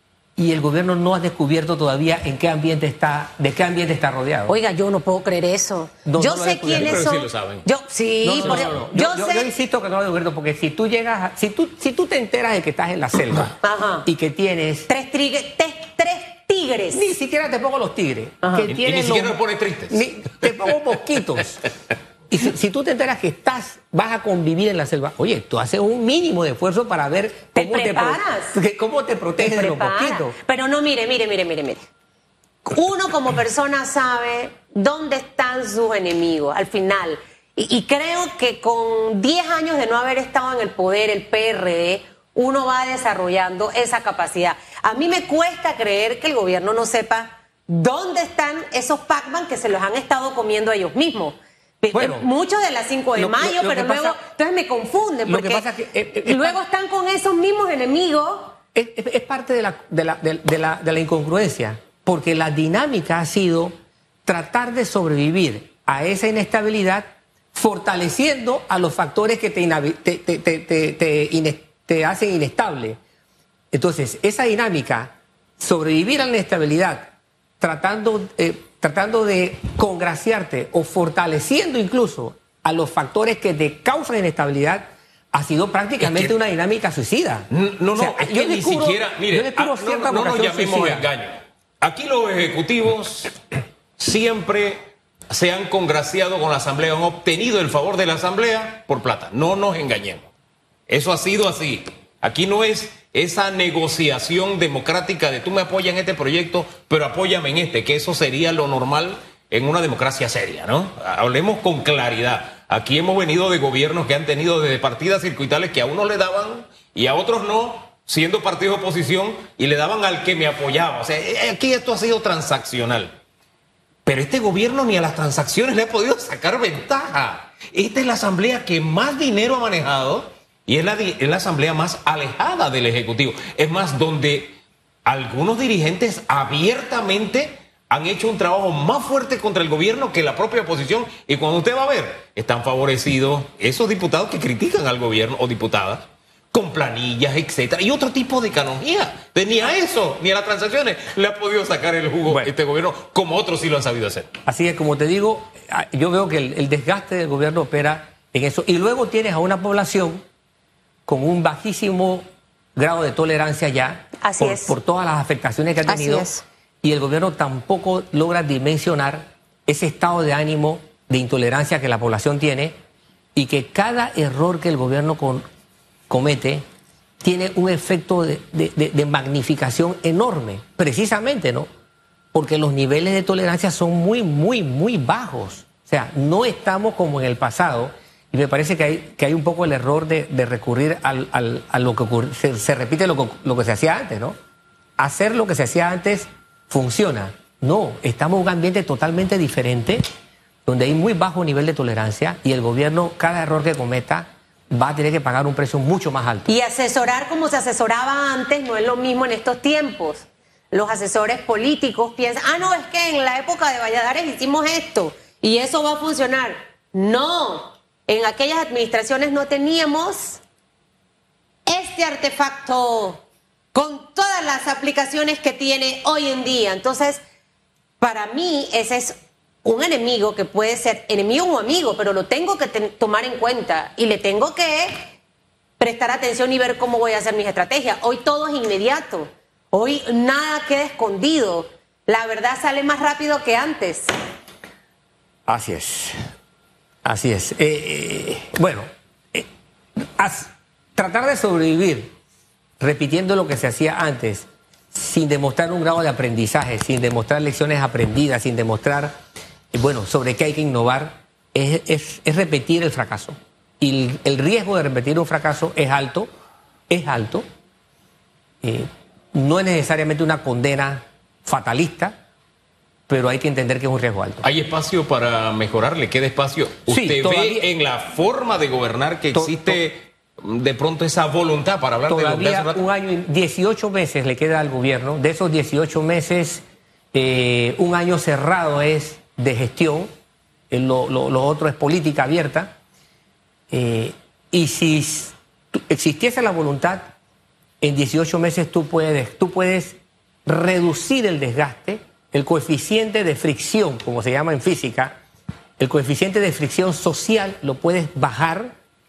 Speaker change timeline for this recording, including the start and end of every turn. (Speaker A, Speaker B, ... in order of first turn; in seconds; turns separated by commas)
Speaker A: 0.4-4.5, Speaker B: 4.5-9.5, Speaker A: 6.0-7.0, Speaker C: 6.7-7.7, Speaker A: 8.2-14.9, Speaker C: 8.4-8.8, Speaker B: 13.6-14.1, Speaker B: 14.9-17.1, Speaker A: 16.9-19.4, Speaker B: 18.4-18.7, Speaker C: 18.7-20.8, Speaker A: 19.9-21.6, Speaker A: 22.3-30.4, Speaker B: 27.6-28.6, Speaker B: 29.4-31.9, Speaker B: 32.6-55.7, Speaker A: 51.9-52.3, Speaker A: 53.2-54.2, Speaker A: 55.3-56.6, Speaker B: 56.2-58.6, Speaker A: 58.7-63.7, Speaker A: 64.3-73.0, Speaker A: 73.7-91.1, Speaker C: 86.0-86.3, Speaker C: 87.5-93.4, Speaker C: 94.0-100.3, Speaker C: 100.9-123.1, Speaker C: 124.1-154.3, Speaker A: 152.3-152.5, Speaker A: 154.5-160.2, Speaker A: 161.1-162.2, Speaker A: 162.8-166.3, Speaker B: 164.2-164.8, Speaker B: 165.9-166.4, Speaker A: 166.8-172.7, Speaker A: 173.3-175.4, Speaker A: 176.1-176.6, Speaker A: 177.2-181.7, Speaker A: 182.3-194.4, Speaker A: 195.0-200.0, Speaker A: 200.7-206.5, Speaker B: 206.5-220.4, Speaker B: 221.7-223.2, Speaker B: 223.7-227.2, Speaker B: 228.0-235.1, Speaker B: 235.8-244.1, Speaker A: 245.5-246.2, Speaker A: 247.0-252.1, Speaker A: 252.8-259.2, Speaker A: 259.7-266.3, Speaker A: 266.9-267.4, Speaker A: 268.6-272.2, Speaker A: 273.1-274.4, Speaker C: 274.4-282.8, Speaker A: 276.9-277.7, Speaker A: 279.3-279.8, Speaker A: 282.1-290.1, Speaker A: 290.7-292.8, Speaker A: 293.7-297.1, Speaker A: 297.8-305.2, Speaker A: 305.8-308.7